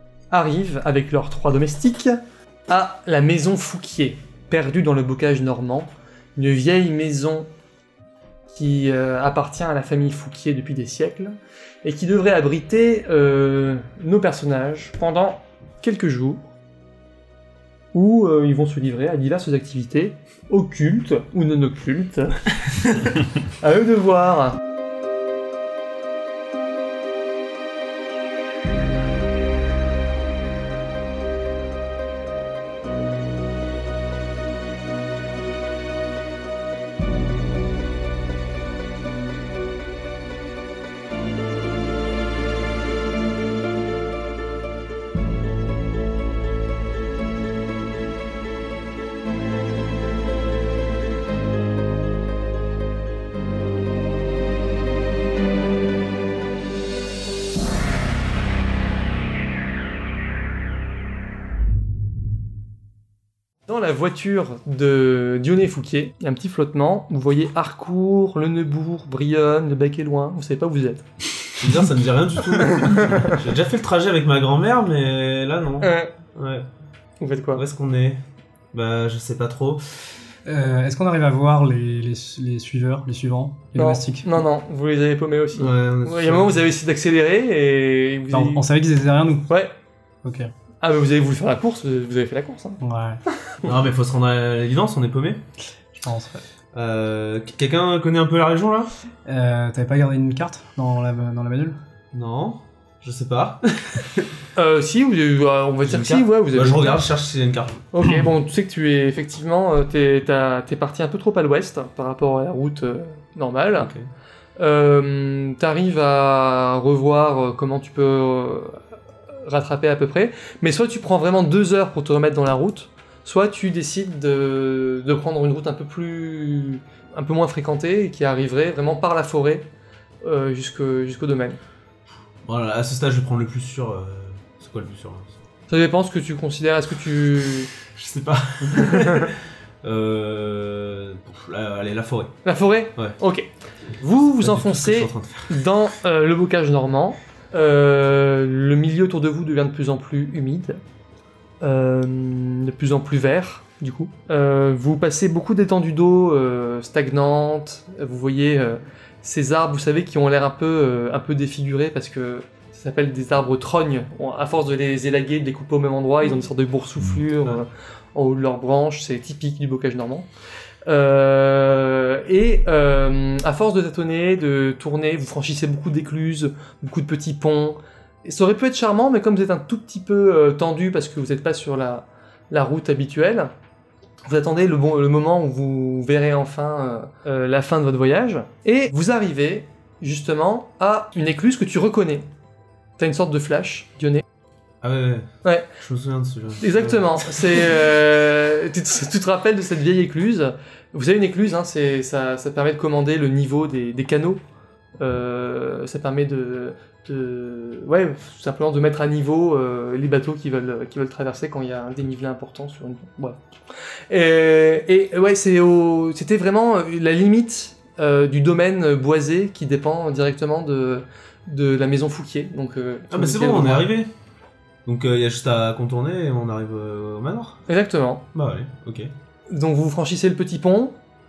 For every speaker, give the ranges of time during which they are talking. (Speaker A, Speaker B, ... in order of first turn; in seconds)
Speaker A: 0.3-7.5, 8.5-16.5, 17.9-22.4, 23.6-24.6, 63.7-71.0, 72.9-73.3, 75.8-76.1, 77.2-77.6, 83.8-88.7, 89.5-89.7, 90.8-92.8, 104.6-107.0, 107.9-113.9, 114.6-118.8, 119.5-129.7, 130.2-131.6, 135.7-137.7, 138.7-139.3, 142.4-143.5, 144.0-150.8, 151.6-170.3, 170.9-183.5, 184.2-192.3, 193.0-194.2, 196.6-204.4, 205.0-213.4, 214.1-223.9, 227.7-228.2, 229.5-231.0
Speaker B: 71.6-76.7, 77.5-78.2, 78.7-79.8, 85.6-86.6, 93.6-95.4, 96.7-98.9, 102.1-104.3, 105.8-107.8, 113.8-114.1, 132.4-135.3, 137.9-142.3, 144.4-145.6, 194.8-197.7, 223.1-224.1, 224.9-227.6, 228.3-229.1
Speaker C: 80.5-84.4, 88.3-89.5, 90.2-90.5, 92.8-93.2, 96.0-96.4, 99.3-101.8